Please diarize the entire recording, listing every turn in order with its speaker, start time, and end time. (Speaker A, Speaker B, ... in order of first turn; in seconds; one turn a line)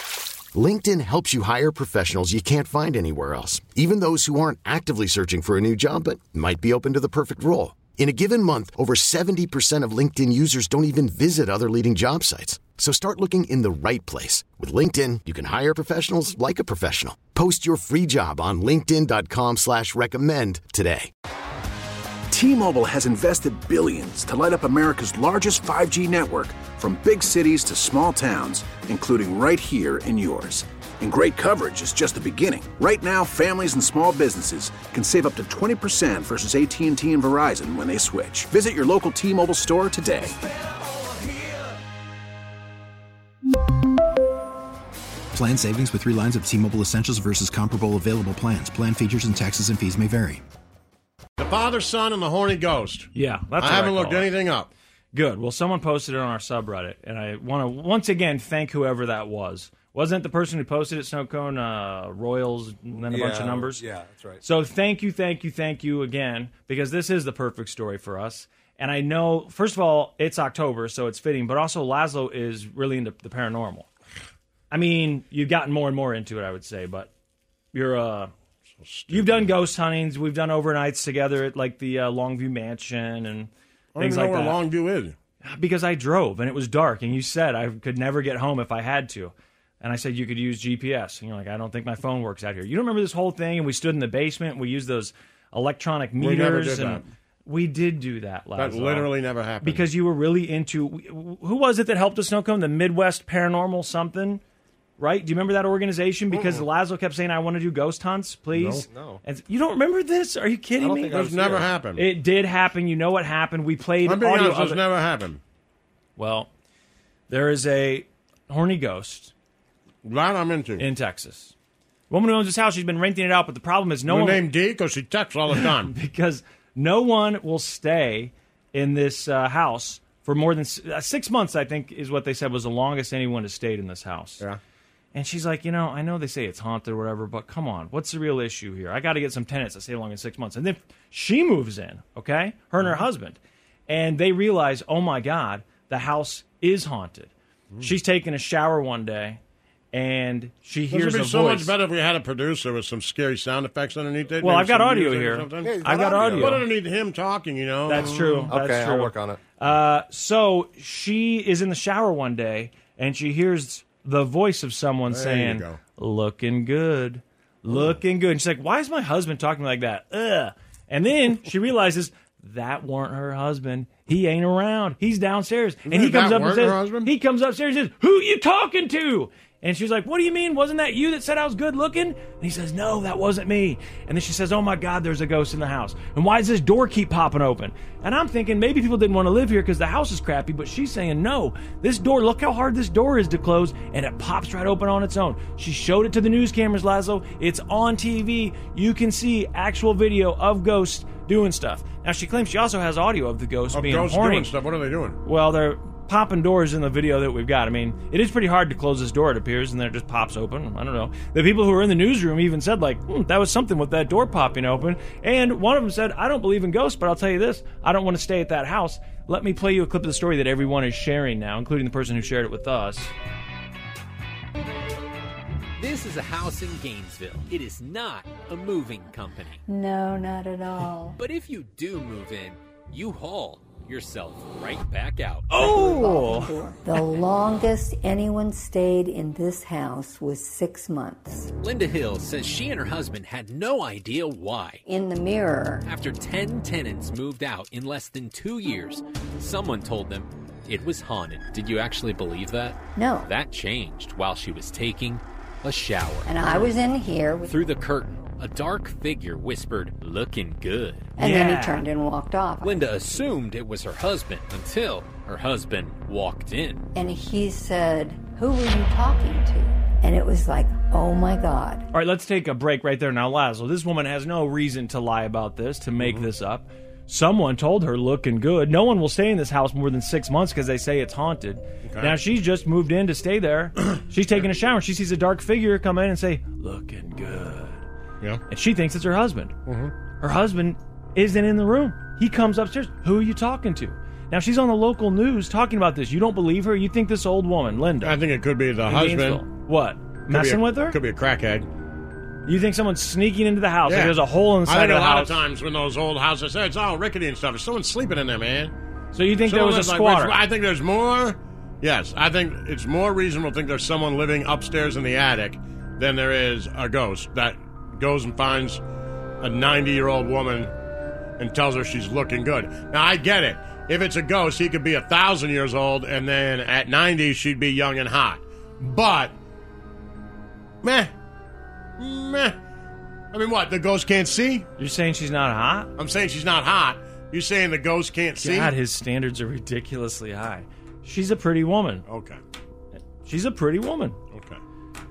Speaker A: 0.5-21.1
Speaker B: 22.3-40.3
Speaker C: 45.3-50.4
Speaker D: 51.4-54.7
Speaker E: 53.1-54.3
Speaker E: 55.1-63.8
Speaker F: 63.1-64.4
Speaker E: 64.4-73.9
Speaker E: 74.7-77.1
Speaker E: 77.7-78.3
Speaker D: 78.8-79.5
Speaker E: 79.1-84.6
Speaker D: 84.0-85.2
Speaker E: 85.4-104.4
Speaker D: 96.2-97.0
Speaker D: 98.5-99.8
Speaker E: 105.0-114.8
Speaker F: 106.4-106.6
Speaker D: 108.5-108.8
Speaker F: 108.9-109.2
Speaker F: 110.8-111.7
Speaker D: 111.1-112.0
Speaker D: 114.0-115.4
Speaker E: 116.2-116.5
Speaker E: 117.3-119.3
Speaker D: 120.0-120.8
Speaker E: 120.8-121.5
Speaker E: 122.1-124.4
Speaker D: 124.1-125.9
Speaker E: 125.5-134.4
Speaker E: 135.1-149.4
Speaker E: 149.9-151.7
Speaker D: 150.9-158.5
Speaker E: 154.4-156.6
Speaker F: 155.7-156.3
Speaker E: 157.9-204.5
Speaker F: 158.5-159.4
Speaker D: 165.1-165.8
Speaker D: 175.8-177.1
Speaker D: 203.7-205.2
Speaker E: 205.2-223.1
Speaker G: 225.8-229.6
Speaker H: 229.7-231.2
Speaker G: 231.2-235.5
Speaker E: 235.5-236.5
Speaker H: 235.5-241.5
Speaker G: 241.6-244.8
Speaker H: 244.8-245.9
Speaker G: 245.8-256.8
Speaker H: 252.9-253.3
Speaker H: 256.2-257.6
Speaker G: 257.4-261.1
Speaker H: 261.2-263.3
Speaker E: 261.2-261.8
Speaker G: 262.6-266.9
Speaker H: 266.9-271.9
Speaker E: 271.9-287.8
Speaker D: 276.0-276.3
Speaker D: 281.8-282.1
Speaker E: 288.5-289.5
Speaker D: 289.7-289.9
Speaker E: 290.2-298.2
Speaker D: 298.0-299.5
Speaker E: 298.9-301.0
Speaker D: 300.3-301.7
Speaker E: 302.4-305.3
Speaker D: 303.9-308.7
Speaker E: 309.1-310.4
Speaker D: 309.4-318.8
Speaker D: 319.4-320.7
Speaker D: 321.4-329.3
Speaker D: 330.8-331.1
Speaker D: 332.0-332.6
Speaker D: 333.3-334.7
Speaker E: 334.8-335.9
Speaker D: 336.0-338.7
Speaker E: 338.4-342.0
Speaker D: 342.1-342.4
Speaker E: 343.2-344.2
Speaker D: 344.3-344.6